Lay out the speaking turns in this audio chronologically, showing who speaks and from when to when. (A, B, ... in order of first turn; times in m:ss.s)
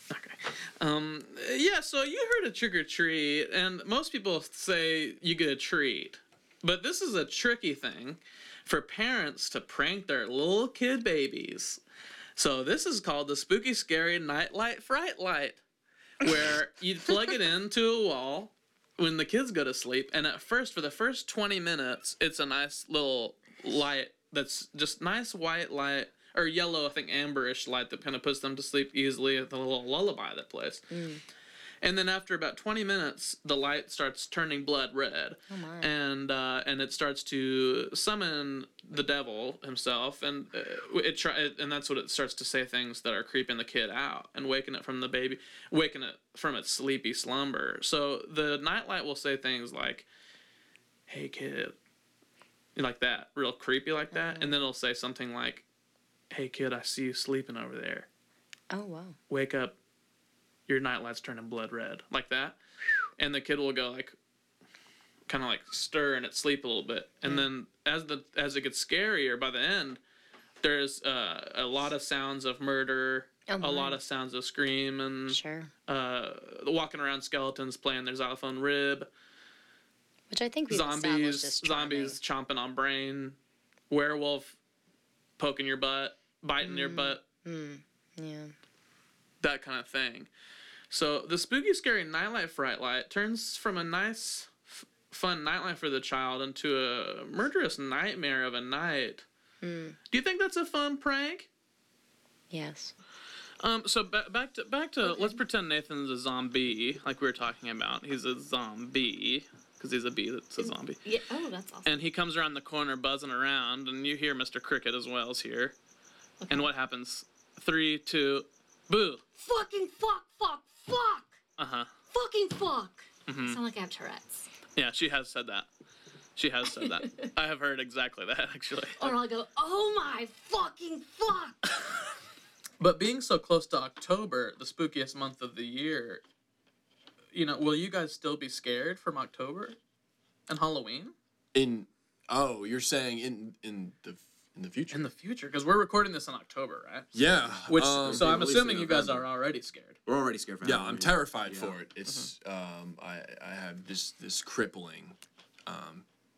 0:00.1-0:11.8 A
0:12.4-0:15.6 A
0:16.2-0:30.8 A
0:30.9-0:31.2 B
0:31.8-0:50.1 A
0:35.5-0:35.9 B
0:51.1-0:51.7 A
0:52.8-0:55.6 A
0:54.1-0:54.5 B
0:56.3-0:58.1 A
0:58.7-0:59.2 B
0:59.3-0:59.7 A
1:00.7-1:02.6 A
1:03.2-1:04.2 A
1:05.3-1:10.0 A
1:10.6-1:19.1 A
1:13.5-1:14.0 B
1:15.3-1:15.7 B
1:20.3-1:22.2 B
1:20.7-1:23.4 A
1:23.9-1:24.6 A
1:25.4-1:27.2 A
1:26.6-1:28.5 B
1:29.4-1:30.3 A
1:30.9-1:34.6 A
1:35.1-1:39.2 A
1:39.6-1:40.0 B
1:40.1-1:41.5 A
1:42.5-1:42.9 B
1:43.6-1:51.0 A
1:45.0-1:45.4 C
1:50.6-1:51.9 C
1:51.8-1:55.7 A
1:56.4-1:56.7 C
1:56.5-1:59.2 A
1:59.3-2:01.3 C
2:01.6-2:01.9 A
2:02.1-2:04.5 C
2:03.3-2:03.6 A
2:04.8-2:05.7 A
2:06.4-2:09.1 A
2:06.7-2:07.3 C
2:09.0-2:11.6 C
2:12.8-2:16.2 A
2:17.3-2:19.8 A
2:20.5-2:21.1 A
2:21.5-2:25.0 D
2:24.9-2:27.1 A
2:27.1-2:29.2 D
2:27.3-2:28.8 E
2:27.7-2:30.0 A
2:30.1-2:31.8 E
2:30.6-2:35.2 D
2:35.7-2:36.0 D